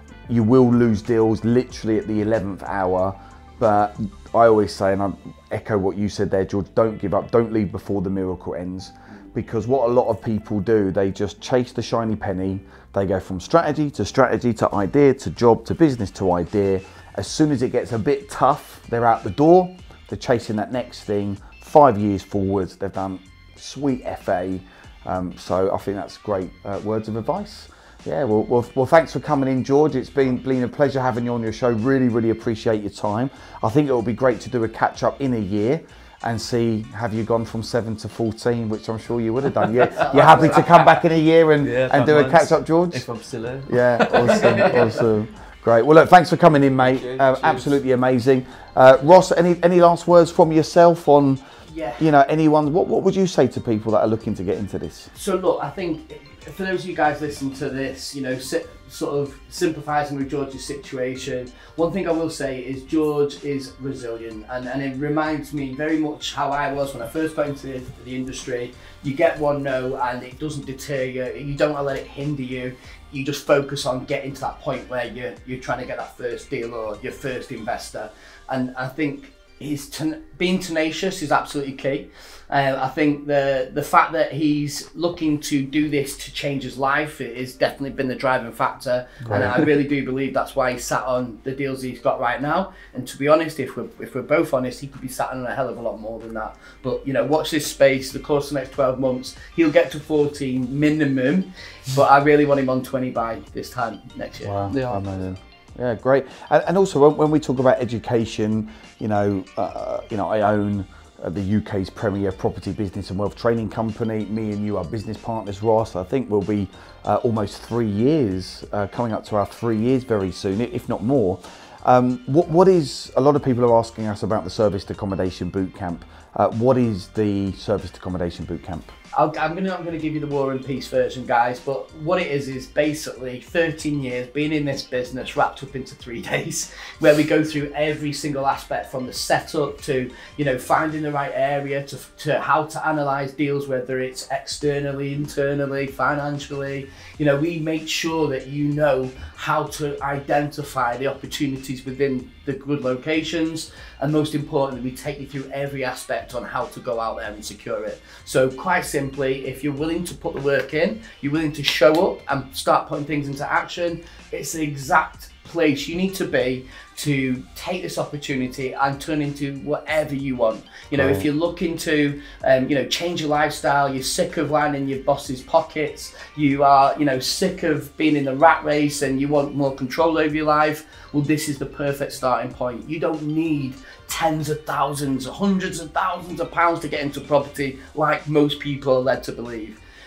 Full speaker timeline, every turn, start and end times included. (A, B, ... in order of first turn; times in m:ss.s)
0:00.3-0:43.0 A
0:39.5-0:40.8 B
0:39.9-0:40.6 C
0:41.6-0:45.0 B
0:43.7-0:51.4 A
0:44.2-0:44.9 C
0:46.8-0:47.8 B
0:51.6-0:52.1 C
0:52.0-0:55.1 A
0:55.1-1:45.3 C
1:29.2-1:29.6 A
1:44.4-2:08.9 A
2:09.1-3:09.8 C
2:50.9-2:51.3 A